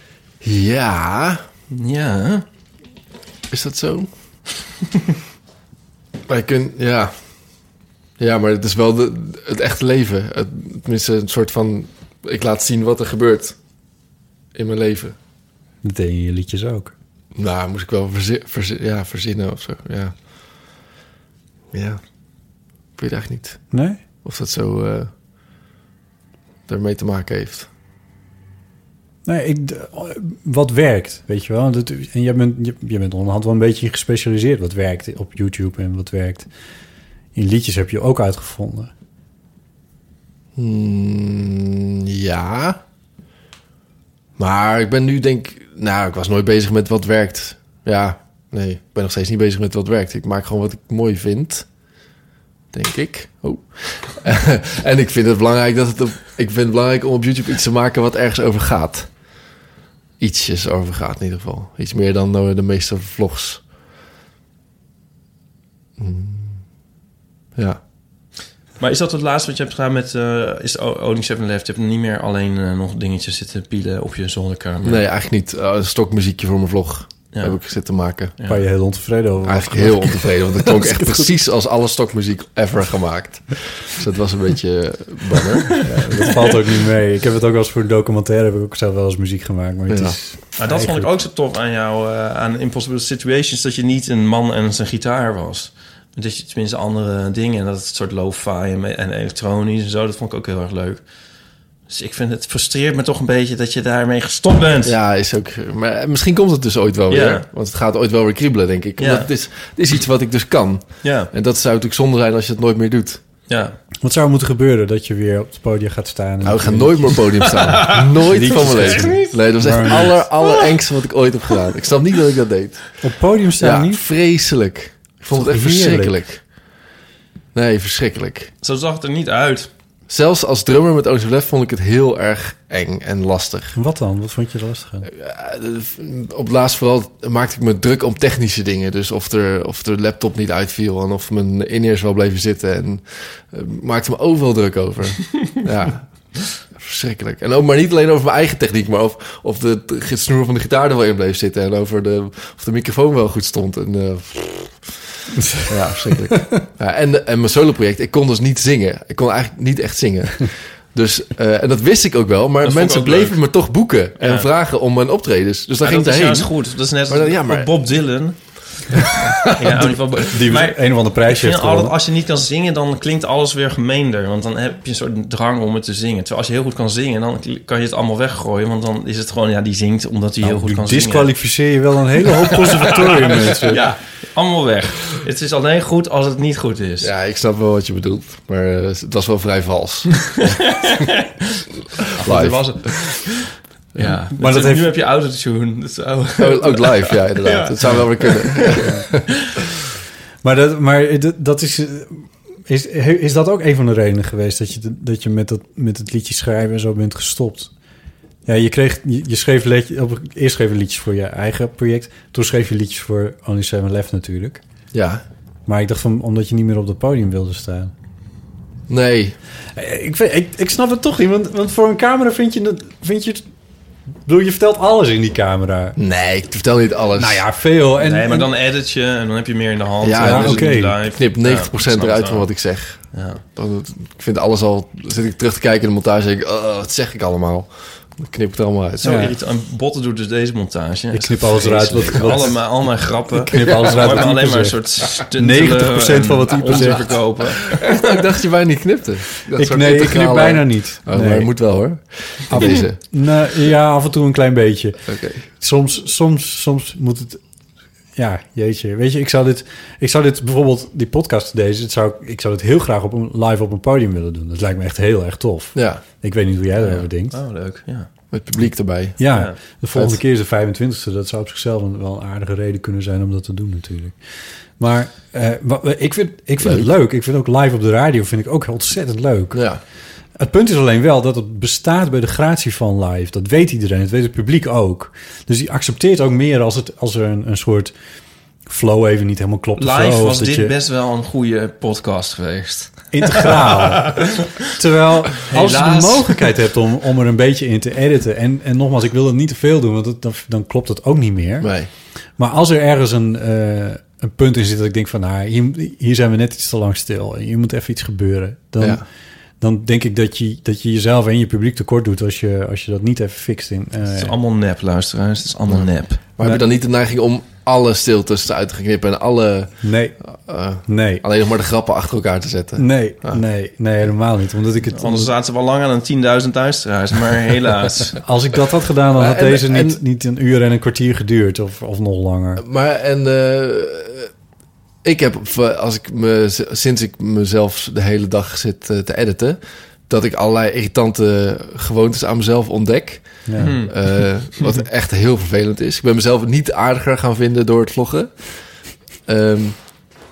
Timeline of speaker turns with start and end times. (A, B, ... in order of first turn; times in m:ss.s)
0:00.4-0:01.4 A
0:01.7-0:02.4 B
0:03.5-0:04.1 A
0:06.3-0:07.1 A
0:08.2-0:13.6 A
0:14.5-0:15.2 A
0:15.8-0:16.9 C
0:17.4-0:20.2 A
0:21.7-0:22.0 A
0:23.0-0:25.1 A
0:23.7-0:24.0 C
0:26.7-0:27.7 A
0:29.3-0:36.5 C
0:37.4-0:38.9 C
0:40.6-0:42.8 A
0:44.4-0:51.7 A
0:52.7-0:59.1 A
1:00.2-1:03.6 A
1:06.0-1:06.6 A
1:07.6-1:07.8 A
1:08.8-1:15.0 B
1:14.8-1:18.4 A
1:18.4-1:18.6 B
1:18.5-1:21.3 C
1:19.4-1:25.9 A
1:25.8-1:31.1 C
1:29.9-1:30.2 A
1:30.6-1:41.0 B
1:41.9-1:45.0 B
1:44.8-1:53.2 A
1:47.1-1:47.5 B
1:49.0-1:49.3 B
1:51.0-1:51.3 B
1:53.5-1:53.8 B
1:54.0-2:00.2 C
1:56.4-2:03.0 A
1:57.6-2:00.7 B
2:03.0-2:04.0 C
2:03.6-2:06.4 A
2:05.3-2:06.2 C
2:07.5-2:08.5 A
2:08.6-2:09.7 B
2:10.1-2:13.8 A
2:13.8-2:15.1 C
2:15.1-2:35.1 A
2:35.6-2:47.7 A
2:42.6-2:43.4 B
2:44.2-2:44.5 B
2:45.8-2:48.4 B
2:48.9-3:01.3 B
2:49.0-2:50.0 A
2:49.8-2:52.0 C
3:00.4-3:03.8 C
3:02.6-3:07.1 B
3:07.0-3:10.5 A
3:10.2-3:18.8 B
3:12.2-3:12.9 A
3:14.0-3:14.2 A
3:14.4-3:14.9 C
3:16.4-3:19.3 A
3:18.8-3:19.1 C
3:20.4-3:27.7 C
3:28.5-3:34.6 C
3:34.9-3:35.2 A
3:35.7-3:37.9 C
3:38.9-3:39.4 A
3:39.8-3:43.4 C
3:44.3-3:46.0 C
3:46.0-3:47.4 A
3:47.2-3:48.5 C
3:48.0-3:52.5 B
3:50.0-3:59.3 A
3:50.2-3:51.0 C
3:53.1-3:53.4 B
3:59.0-4:08.0 B
3:59.0-3:59.3 C
4:01.1-4:02.6 C
4:03.4-4:07.1 C
4:03.5-4:04.3 A
4:06.7-4:13.0 A
4:09.5-4:11.5 C
4:12.5-4:17.4 C
4:15.1-4:15.4 A
4:18.2-4:27.4 C
4:25.8-4:26.0 A
4:26.8-4:28.1 B
4:28.3-4:29.4 A
4:29.2-4:34.2 C
4:30.0-4:30.2 A
4:34.8-4:39.7 C
4:36.6-4:36.9 A
4:39.5-4:39.8 A
4:40.4-4:47.9 C
4:48.7-4:50.7 C
4:49.8-4:54.3 B
4:53.1-5:01.7 C
4:55.5-4:56.4 B
5:01.6-5:01.9 A
5:02.4-5:09.0 C
5:09.6-5:14.4 C
5:14.1-5:16.2 B
5:15.7-5:23.4 A
5:19.8-5:20.2 C
5:20.8-5:21.2 C
5:22.8-5:25.3 C
5:24.9-5:28.2 B
5:28.2-5:32.6 C
5:29.2-5:30.0 A
5:32.6-5:34.3 A
5:35.0-5:48.6 A
5:43.5-5:43.8 C
5:43.6-5:44.7 B
5:49.3-5:49.8 A